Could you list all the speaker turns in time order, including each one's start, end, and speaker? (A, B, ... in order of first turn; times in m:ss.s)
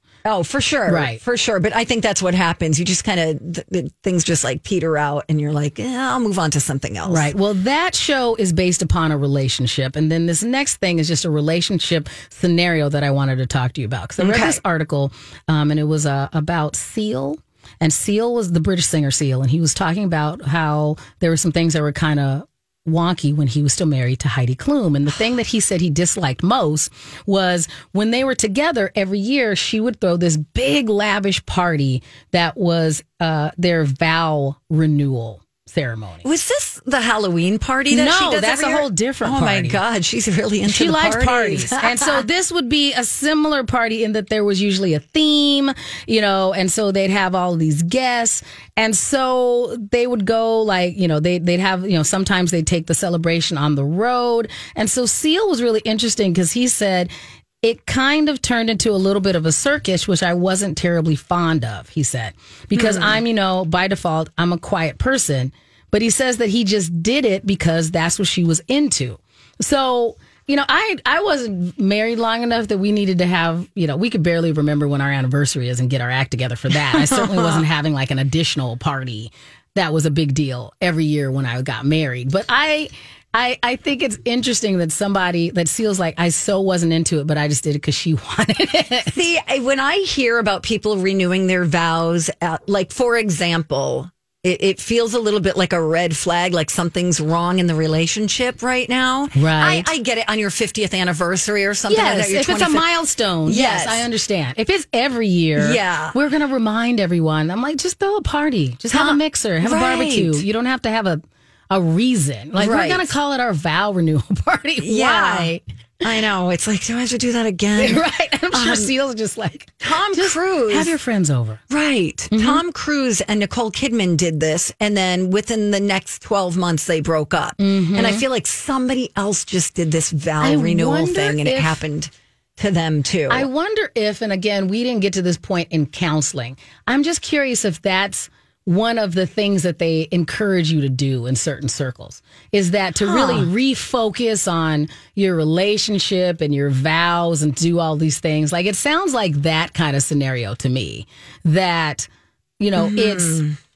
0:00.2-0:07.3 A
0:00.9-0:01.2 B
0:07.0-0:36.3 B
0:14.2-0:14.6 A
0:36.2-0:42.2 A
0:37.9-0:39.8 B
0:40.7-0:57.1 B
0:57.6-1:29.1 B
1:02.7-1:03.2 A
1:16.8-1:17.6 A
1:29.1-1:42.9 A
1:39.4-1:39.9 B
1:41.9-1:55.6 B
1:43.5-1:44.1 A
1:45.6-1:46.2 A
1:48.9-1:50.4 A
1:52.6-1:53.1 A
1:54.8-1:58.9 A
1:57.8-2:01.6 B
1:59.8-2:01.0 A
2:01.7-2:13.5 A
2:02.3-2:02.6 B
2:07.6-2:08.2 B
2:10.4-2:11.8 B
2:13.3-2:32.1 B
2:23.0-2:23.5 A
2:32.6-2:33.4 B
2:32.8-2:33.6 A